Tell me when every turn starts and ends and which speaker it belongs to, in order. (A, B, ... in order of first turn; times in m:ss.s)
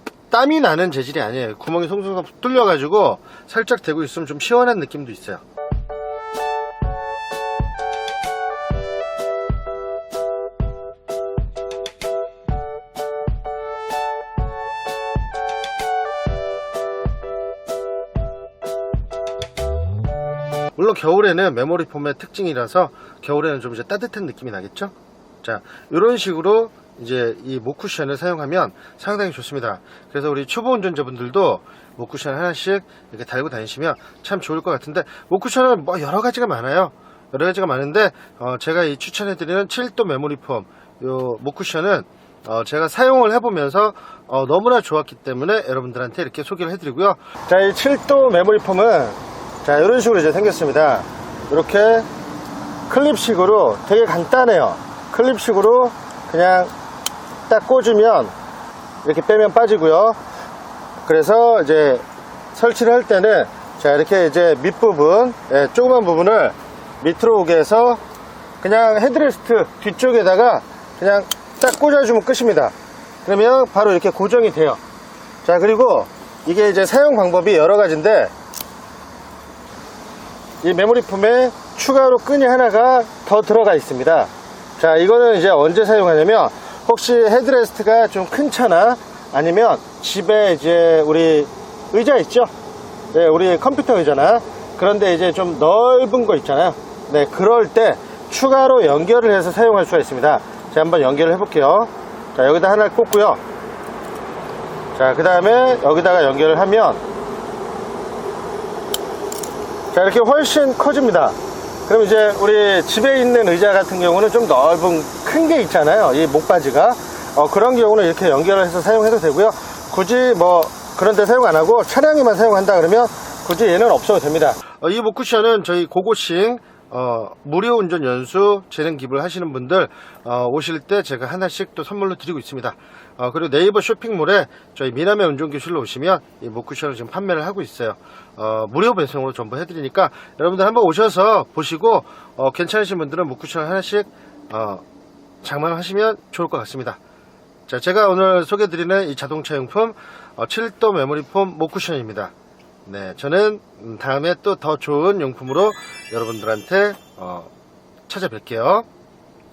0:00.3-0:05.4 A
0:20.8-0:52.1 A
0:52.9-0:56.7 A
0:57.5-0:58.3 A
0:59.0-1:00.2 A
1:01.0-1:08.0 A
1:08.6-1:14.8 A
1:15.4-1:18.3 A
1:20.6-1:32.5 A
1:33.1-1:43.4 A
1:44.9-1:47.0 A
1:49.9-1:51.4 A
1:51.9-2:24.8 A
2:25.4-2:27.0 A
2:27.7-2:32.3 A
2:32.8-2:37.5 A
2:38.1-2:38.9 A